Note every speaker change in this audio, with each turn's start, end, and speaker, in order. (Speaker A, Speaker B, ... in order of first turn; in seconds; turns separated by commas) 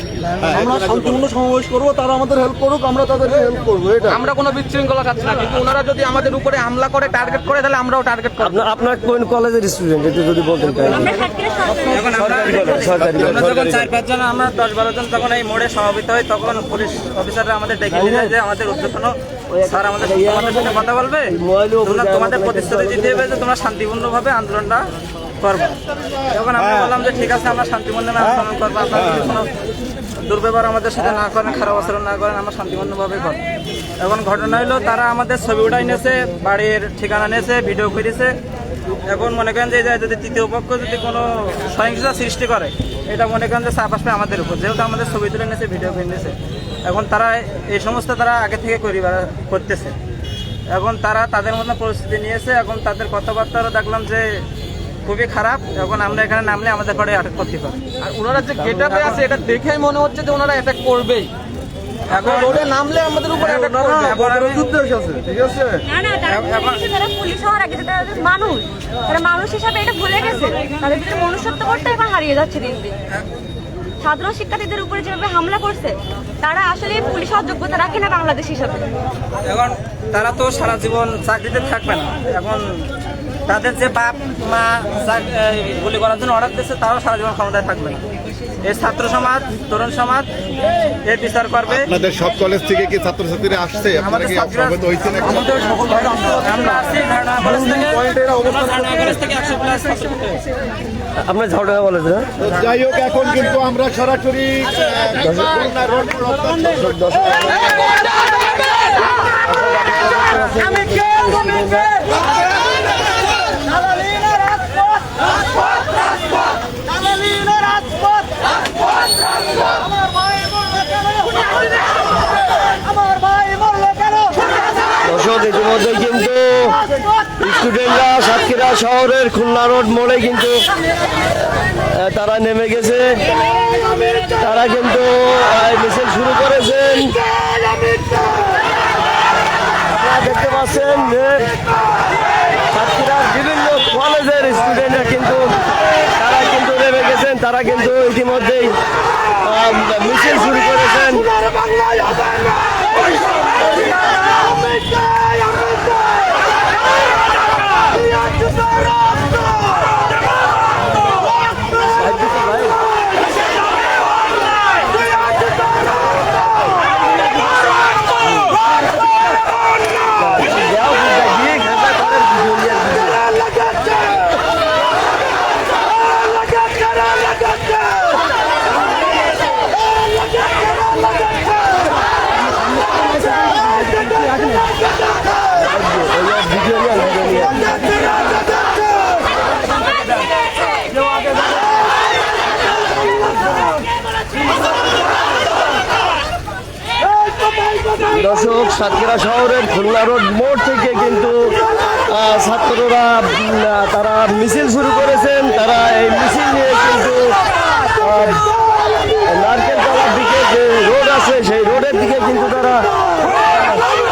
Speaker A: 0.3-4.2, Speaker B: 0.4-1.2, Speaker C: 4.1-8.6, Speaker D: 8.4-11.2, Speaker E: 10.8-12.8, Speaker C: 11.8-12.6, Speaker F: 11.9-24.9, Speaker D: 12.2-13.5, Speaker B: 12.8-13.9, Speaker D: 17.9-18.3, Speaker D: 19.5-23.4, Speaker F: 25.4-25.8, Speaker F: 26.3-29.5, Speaker B: 26.6-26.9, Speaker F: 30.2-33.4, Speaker F: 34.0-38.4, Speaker F: 39.0-50.0, Speaker F: 50.7-54.4, Speaker F: 55.0-57.8, Speaker C: 58.0-61.3, Speaker F: 58.6-59.2, Speaker C: 62.1-64.2, Speaker F: 62.1-62.7, Speaker F: 63.4-64.7, Speaker A: 63.6-65.8, Speaker E: 65.8-72.9, Speaker F: 66.3-66.8, Speaker E: 74.0-78.8, Speaker F: 79.4-82.9, Speaker F: 83.5-88.0, Speaker F: 88.6-90.3, Speaker F: 91.0-91.9, Speaker B: 91.7-95.7, Speaker F: 94.0-100.4, Speaker A: 95.2-96.8, Speaker C: 95.5-96.1, Speaker A: 97.4-99.0, Speaker D: 101.2-102.3, Speaker B: 102.4-107.8, Speaker D: 105.2-105.7, Speaker D: 106.8-107.8, Speaker D: 109.5-112.0, Speaker D: 125.0-126.8, Speaker D: 127.4-130.6, Speaker D: 131.9-133.2, Speaker D: 134.3-137.3, Speaker D: 139.9-141.5, Speaker D: 142.7-145.5, Speaker D: 146.2-148.7, Speaker D: 149.4-151.3, Speaker D: 161.9-162.8, Speaker D: 170.2-173.2, Speaker D: 185.6-187.6, Speaker D: 198.1-201.5, Speaker D: 202.1-207.3, Speaker D: 208.0-208.4, Speaker D: 209.3-212.8, Speaker D: 213.4-213.8